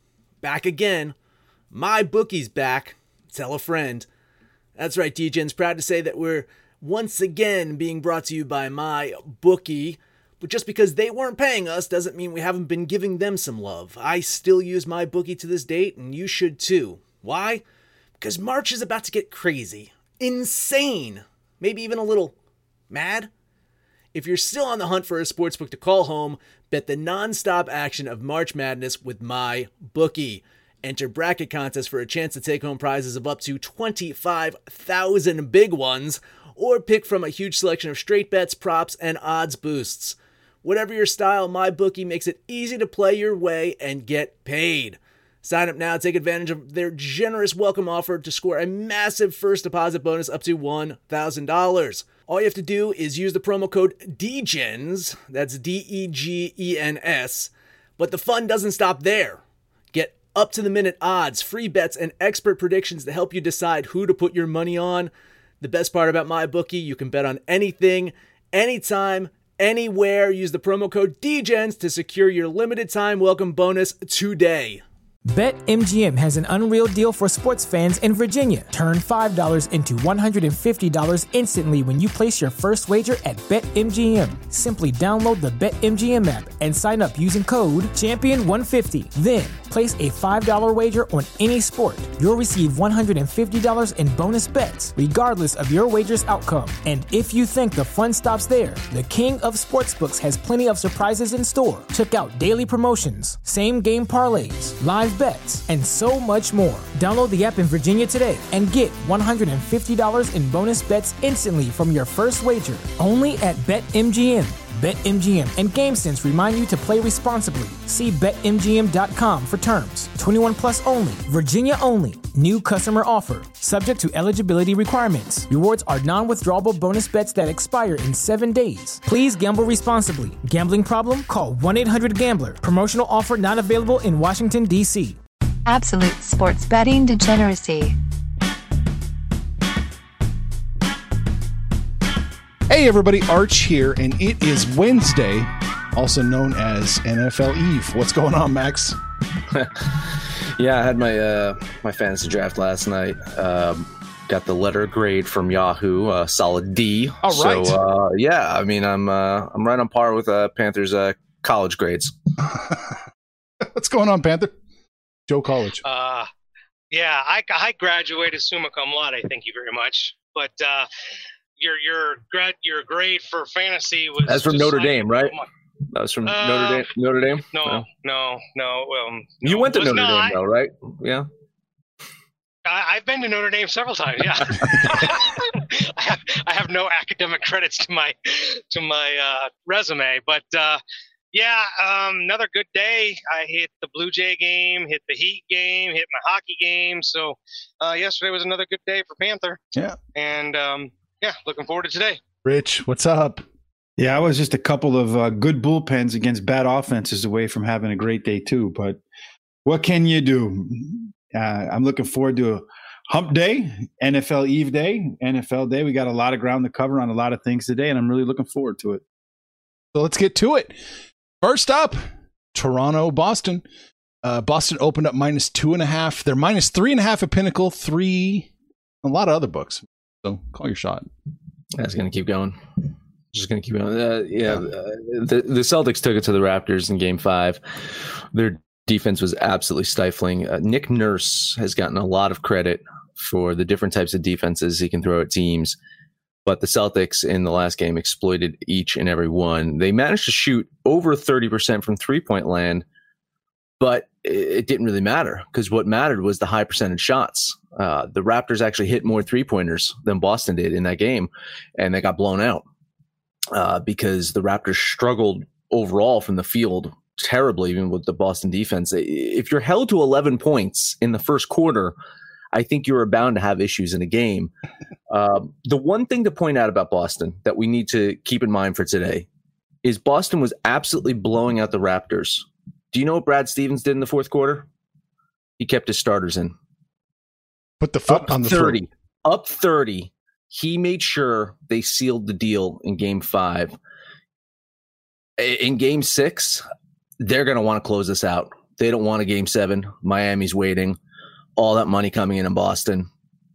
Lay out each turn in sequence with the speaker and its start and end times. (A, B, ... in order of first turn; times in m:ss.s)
0:00.4-0:01.1 A
0:01.7-0:04.1 A
0:04.8-0:17.6 A
0:18.2-0:22.3 A
0:22.9-0:23.3 A
0:24.1-0:59.4 A
0:59.9-1:14.8 A
1:15.3-2:15.2 B
2:15.6-2:18.0 C
2:22.7-2:29.0 D
2:29.5-2:42.1 E
2:37.2-2:37.8 D
2:42.4-2:43.0 D
2:43.6-2:44.5 D
2:45.3-2:45.8 D
2:45.8-2:46.3 F
2:46.9-2:50.9 F
2:51.6-2:55.4 F
2:54.3-2:55.4 E
2:55.9-2:57.8 E
2:56.2-2:56.9 F
2:57.5-3:00.4 F
2:59.4-3:01.2 E
3:02.6-3:10.8 F
3:11.3-3:19.6 F
3:20.1-3:22.2 F
3:22.4-3:23.4 D
3:24.0-3:29.0 G
3:29.6-3:39.0 G
3:39.9-3:40.8 D
3:41.4-3:42.0 D
3:42.5-3:43.6 D
3:44.2-3:48.5 D
3:49.0-3:51.1 D
3:51.8-3:52.6 E
3:53.3-4:05.8 E
4:06.4-4:12.8 E
4:13.8-4:22.6 E
4:23.5-4:32.0 E
4:32.5-4:34.5 E
4:35.1-4:39.3 E
4:39.8-4:44.7 E
4:45.6-4:46.5 E
4:47.8-4:48.8 D
4:48.1-4:53.8 E
4:55.4-4:56.6 E
4:57.2-5:01.0 E
5:01.6-5:03.1 E